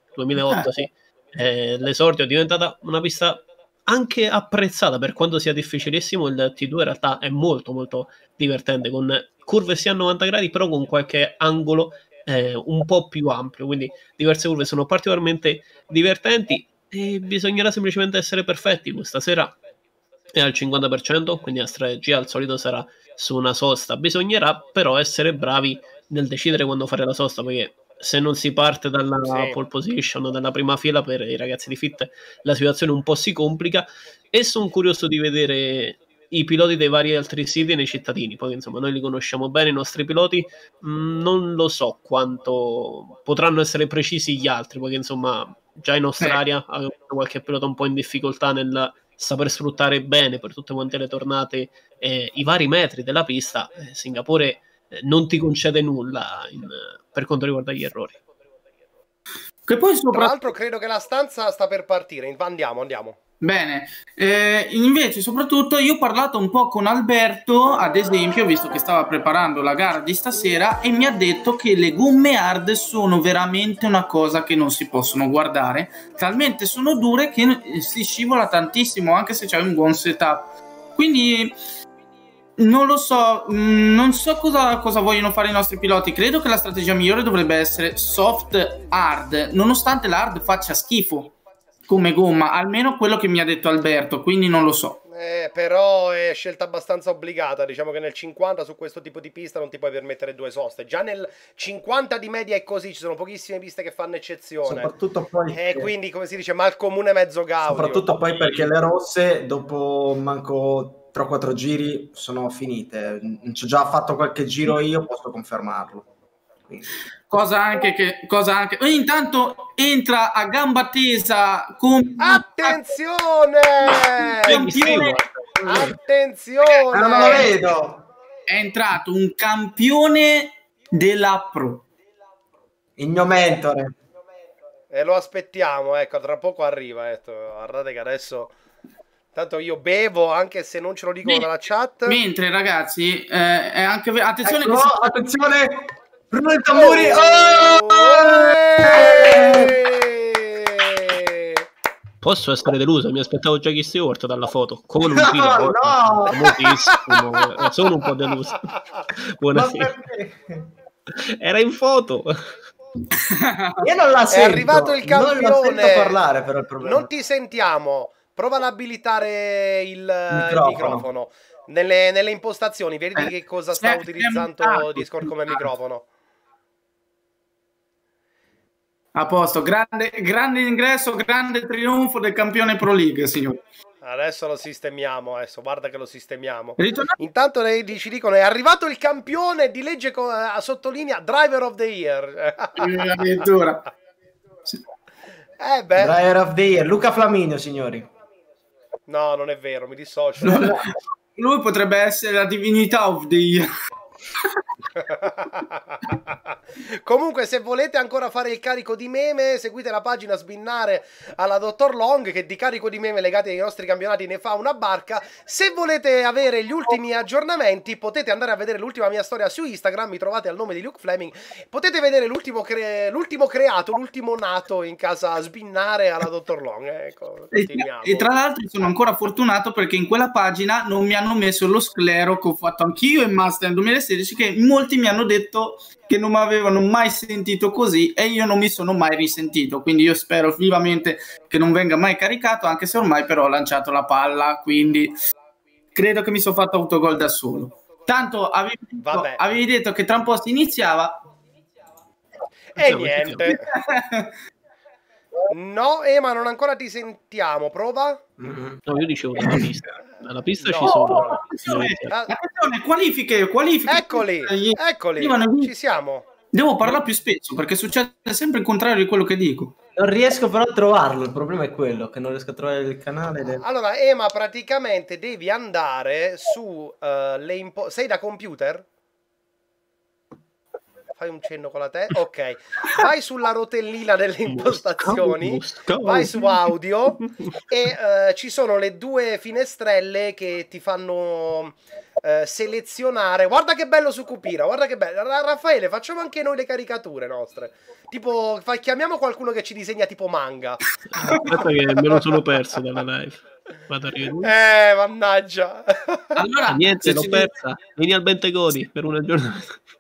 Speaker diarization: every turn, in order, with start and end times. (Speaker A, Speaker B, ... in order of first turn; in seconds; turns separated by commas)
Speaker A: 0.1-19.6, Speaker A: 20.3-58.2, Speaker B: 29.3-29.5, Speaker C: 59.7-60.3, Speaker B: 60.1-63.2, Speaker C: 63.4-81.6, Speaker C: 82.6-91.3, Speaker C: 91.9-95.0, Speaker B: 95.1-104.9, Speaker D: 104.6-105.9, Speaker B: 105.5-108.7, Speaker D: 107.6-116.0, Speaker C: 117.3-122.8, Speaker B: 122.2-124.6, Speaker C: 124.5-125.2, Speaker A: 124.5-125.9, Speaker B: 125.6-127.5, Speaker D: 126.9-128.1, Speaker C: 127.1-127.5, Speaker C: 128.5-131.8, Speaker D: 133.0-133.9, Speaker B: 134.9-138.5, Speaker B: 139.3-142.2, Speaker C: 142.1-145.2, Speaker D: 144.4-149.8, Speaker B: 146.7-151.6, Speaker A: 152.2-159.9, Speaker D: 155.0-156.6, Speaker B: 157.1-157.3, Speaker D: 159.5-160.7, Speaker A: 161.2-162.5, Speaker C: 163.2-163.8, Speaker D: 163.8-167.1, Speaker B: 164.3-166.2, Speaker B: 166.8-176.0, Speaker D: 170.3-171.1, Speaker C: 173.2-175.6, Speaker C: 179.1-183.6, Speaker B: 184.0-193.2, Speaker C: 186.8-187.2, Speaker C: 192.8-193.8, Speaker B: 195.6-196.2, Speaker D: 195.9-198.1, Speaker B: 199.1-200.8, Speaker C: 200.4-203.7, Speaker B: 205.0-228.3, Speaker C: 227.5-245.1, Speaker C: 245.9-251.2, Speaker B: 249.0-249.4, Speaker B: 252.7-253.7, Speaker A: 252.8-253.5, Speaker C: 253.4-254.3, Speaker B: 255.5-258.2, Speaker D: 258.4-258.8, Speaker A: 258.9-262.1, Speaker D: 259.4-259.7, Speaker B: 260.6-261.5, Speaker C: 260.8-265.7, Speaker B: 263.9-266.2, Speaker C: 266.5-269.7, Speaker D: 269.9-273.6, Speaker B: 273.6-278.8, Speaker B: 281.2-300.8, Speaker A: 284.5-286.6, Speaker A: 301.1-304.5, Speaker B: 304.4-306.3, Speaker C: 306.4-307.5, Speaker A: 306.7-309.8